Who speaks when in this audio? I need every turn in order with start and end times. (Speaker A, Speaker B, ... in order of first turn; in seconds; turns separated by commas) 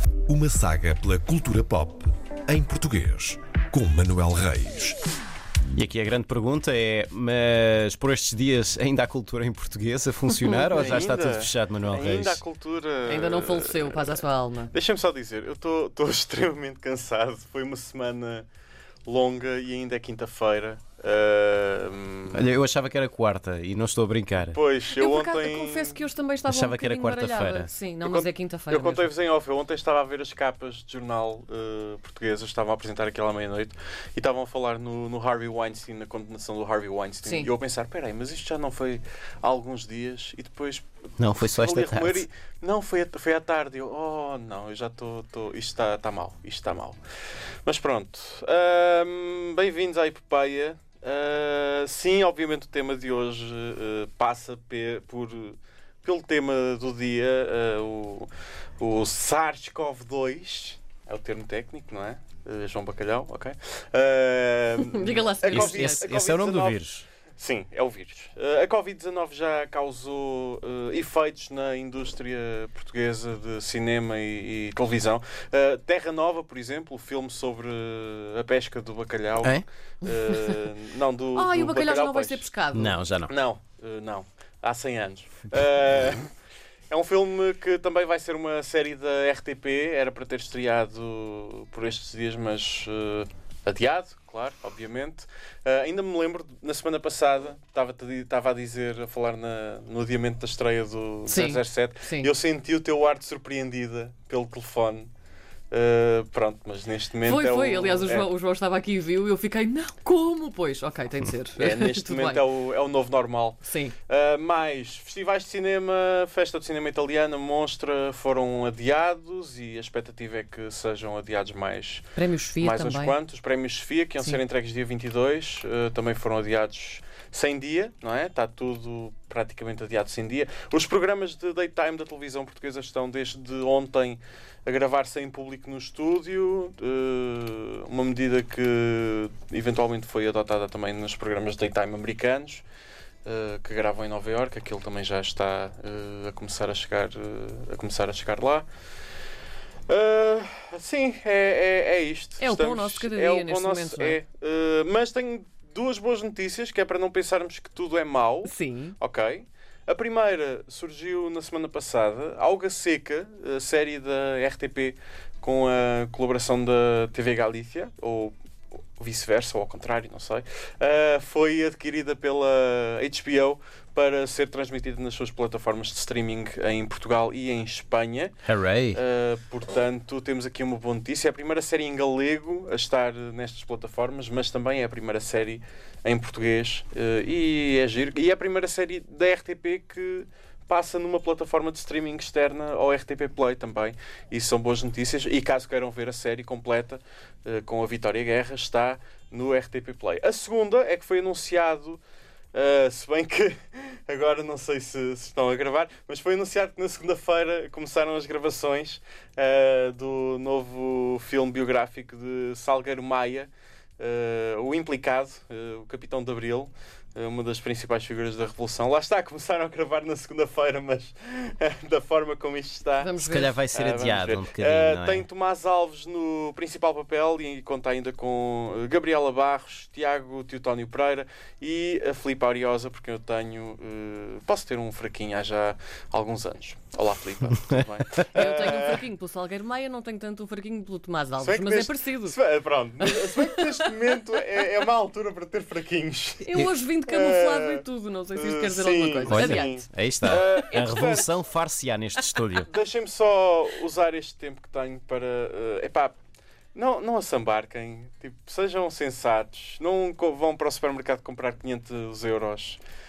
Speaker A: 0.3-5.0, Speaker B: 5.7-12.4, Speaker C: 10.8-14.2, Speaker D: 13.1-14.7, Speaker C: 14.7-18.5, Speaker C: 19.1-22.5, Speaker B: 22.3-24.6, Speaker C: 24.5-26.0, Speaker D: 24.9-29.1, Speaker B: 26.5-27.7, Speaker C: 28.0-47.0, Speaker D: 37.2-37.5, Speaker B: 41.2-42.2, Speaker C: 47.6-66.8, Speaker D: 64.8-66.0, Speaker B: 65.5-67.0, Speaker C: 67.4-82.4, Speaker D: 80.0-80.6, Speaker D: 81.3-83.0, Speaker B: 82.7-83.3, Speaker C: 83.2-86.3, Speaker C: 86.9-105.1, Speaker D: 101.3-102.3, Speaker C: 105.7-108.3, Speaker D: 107.2-112.4, Speaker C: 111.6-122.1, Speaker D: 113.6-113.9, Speaker D: 122.1-123.2, Speaker C: 122.6-142.6, Speaker C: 143.2-148.7, Speaker C: 149.9-168.3, Speaker D: 152.4-154.2, Speaker D: 158.4-159.0, Speaker C: 169.0-178.3, Speaker B: 178.4-179.0, Speaker C: 178.9-202.0, Speaker C: 202.5-223.1, Speaker D: 223.0-223.6, Speaker B: 223.2-225.2, Speaker C: 223.7-239.0, Speaker D: 238.3-242.4, Speaker C: 241.4-247.8, Speaker D: 243.0-243.9, Speaker D: 246.4-251.0, Speaker C: 248.3-251.3, Speaker B: 249.3-252.7, Speaker C: 252.6-256.1, Speaker C: 256.7-262.8